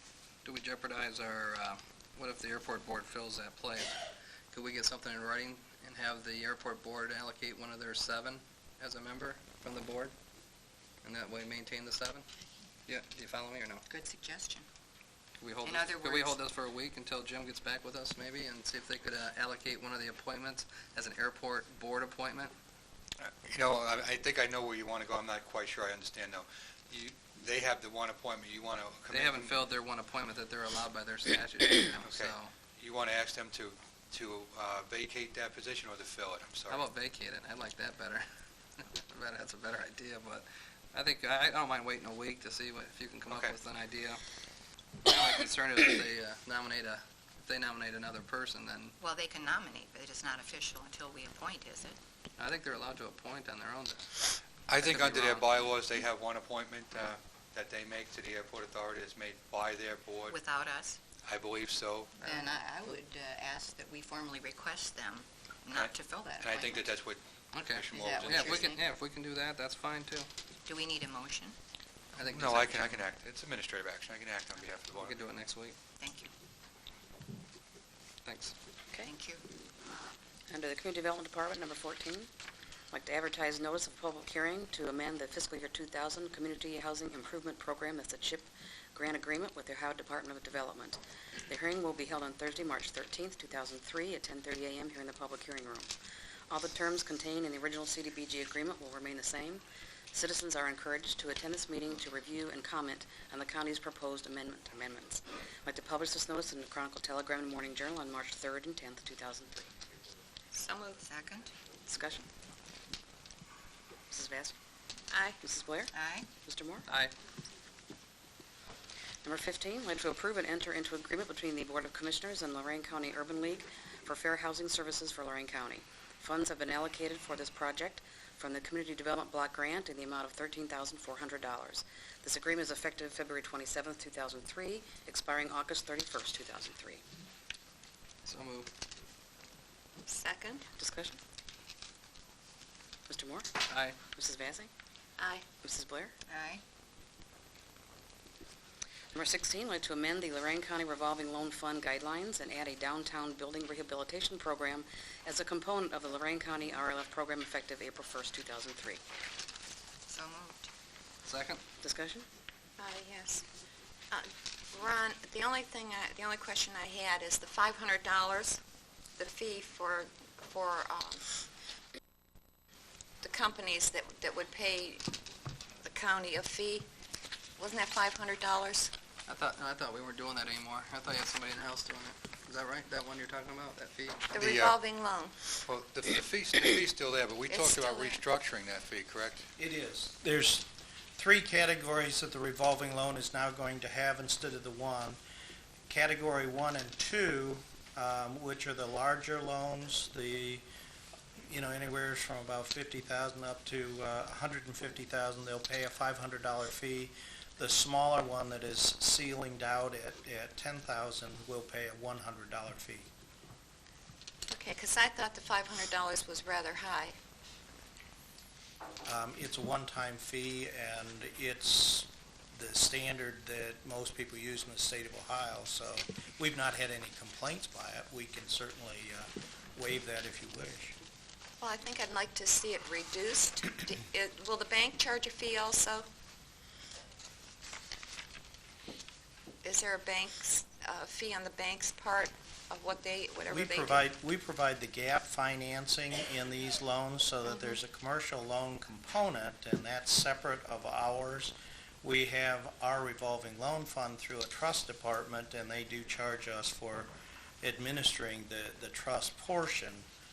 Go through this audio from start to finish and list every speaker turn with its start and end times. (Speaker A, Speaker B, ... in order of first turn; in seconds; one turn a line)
Speaker A: 0.4-4.0
Speaker A: 4.5-10.1
Speaker A: 11.0-12.3
Speaker A: 12.9-13.8
Speaker B: 13.9-14.7
Speaker A: 15.4-22.5
Speaker B: 15.6-16.4
Speaker C: 23.2-29.7
Speaker A: 29.1-32.5
Speaker C: 32.0-36.9
Speaker A: 36.7-44.2
Speaker C: 43.3-43.6
Speaker A: 45.0-49.0
Speaker B: 49.0-52.0
Speaker A: 52.4-54.2
Speaker C: 54.7-60.4
Speaker A: 54.8-55.7
Speaker B: 60.3-61.0
Speaker C: 61.2-62.2
Speaker B: 62.2-66.9
Speaker A: 62.3-62.5
Speaker C: 65.7-68.7
Speaker A: 67.5-70.3
Speaker B: 67.9-68.8
Speaker B: 70.7-71.6
Speaker A: 72.2-73.0
Speaker C: 72.2-75.2
Speaker A: 75.0-75.8
Speaker B: 76.0-76.3
Speaker A: 78.2-78.5
Speaker B: 79.0-79.4
Speaker D: 80.5-82.3
Speaker D: 82.9-95.9
Speaker D: 96.5-99.6
Speaker D: 100.1-109.7
Speaker E: 110.5-111.0
Speaker B: 111.0-111.5
Speaker D: 111.9-112.3
Speaker D: 114.1-114.5
Speaker E: 115.1-115.4
Speaker D: 115.4-116.9
Speaker B: 115.9-116.3
Speaker A: 116.9-117.1
Speaker D: 119.2-137.0
Speaker A: 138.2-138.7
Speaker E: 140.1-140.7
Speaker D: 140.8-141.2
Speaker D: 143.1-143.5
Speaker A: 143.7-144.0
Speaker D: 144.1-144.7
Speaker E: 145.2-145.5
Speaker D: 145.6-146.1
Speaker B: 146.3-146.6
Speaker D: 149.1-159.0
Speaker B: 160.1-160.7
Speaker A: 161.2-161.6
Speaker D: 161.8-162.3
Speaker E: 162.8-163.4
Speaker E: 164.1-168.6
Speaker E: 169.2-171.3
Speaker E: 173.2-175.1
Speaker E: 175.8-176.9
Speaker E: 177.6-178.9
Speaker A: 179.3-184.2
Speaker E: 184.3-185.4
Speaker C: 184.4-184.8
Speaker C: 185.6-189.5
Speaker E: 187.5-188.2
Speaker F: 189.6-195.2
Speaker F: 195.9-200.7
Speaker F: 201.5-213.1
Speaker E: 214.5-217.2
Speaker F: 219.1-231.0
Speaker E: 231.6-236.1
Speaker E: 239.6-244.0
Speaker F: 243.5-257.1
Speaker F: 257.6-260.1